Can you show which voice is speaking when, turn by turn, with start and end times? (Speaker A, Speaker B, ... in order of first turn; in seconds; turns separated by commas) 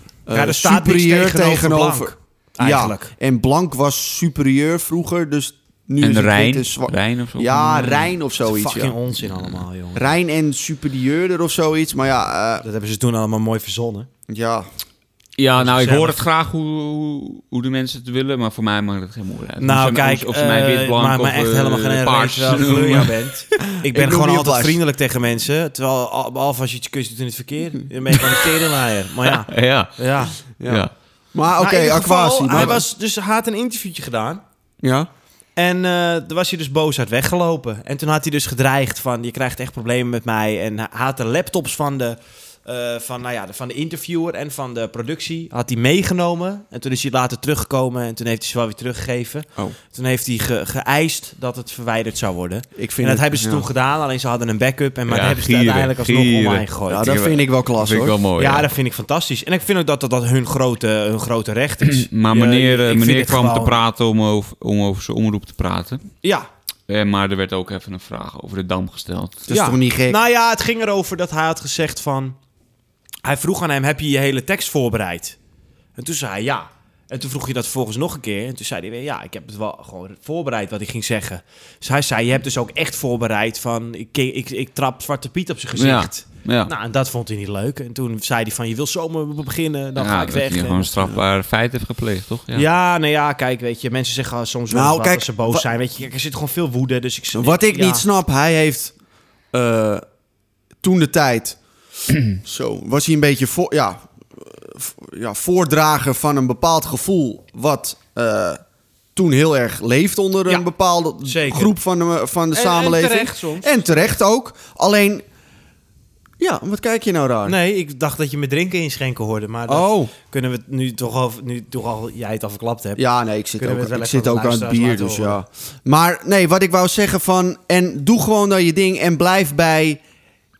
Speaker A: 0.3-9.0, Speaker B: 0.3-3.1, Speaker C: 6.0-8.1, Speaker B: 7.8-10.1, Speaker A: 9.9-12.7, Speaker B: 12.6-14.1, Speaker A: 14.3-14.7, Speaker C: 15.4-23.2, Speaker B: 15.6-16.2, Speaker B: 19.6-30.4, Speaker A: 23.8-24.8, Speaker C: 29.2-30.0, Speaker A: 30.6-32.8, Speaker C: 30.6-30.9, Speaker B: 31.6-34.4, Speaker A: 34.8-35.1, Speaker B: 35.6-57.1, Speaker A: 52.8-53.7, Speaker C: 55.1-58.7, Speaker A: 56.9-58.2, Speaker B: 58.4-63.8, Speaker C: 61.9-66.0, Speaker B: 66.2-66.5, Speaker C: 66.9-69.4, Speaker A: 69.5-70.2, Speaker B: 69.5-72.4, Speaker B: 73.2-75.4, Speaker B: 76.0-90.9, Speaker C: 85.8-86.7, Speaker C: 90.0-92.7, Speaker B: 92.5-98.0, Speaker A: 94.7-95.7, Speaker A: 97.3-98.9, Speaker A: 99.5-100.0, Speaker A: 100.8-101.6, Speaker A: 102.3-108.6, Speaker A: 109.2-115.2, Speaker B: 111.2-111.7, Speaker B: 112.5-113.8, Speaker A: 116.4-117.5, Speaker B: 117.5-123.0, Speaker A: 119.7-120.1, Speaker A: 123.0-130.0, Speaker B: 123.6-125.4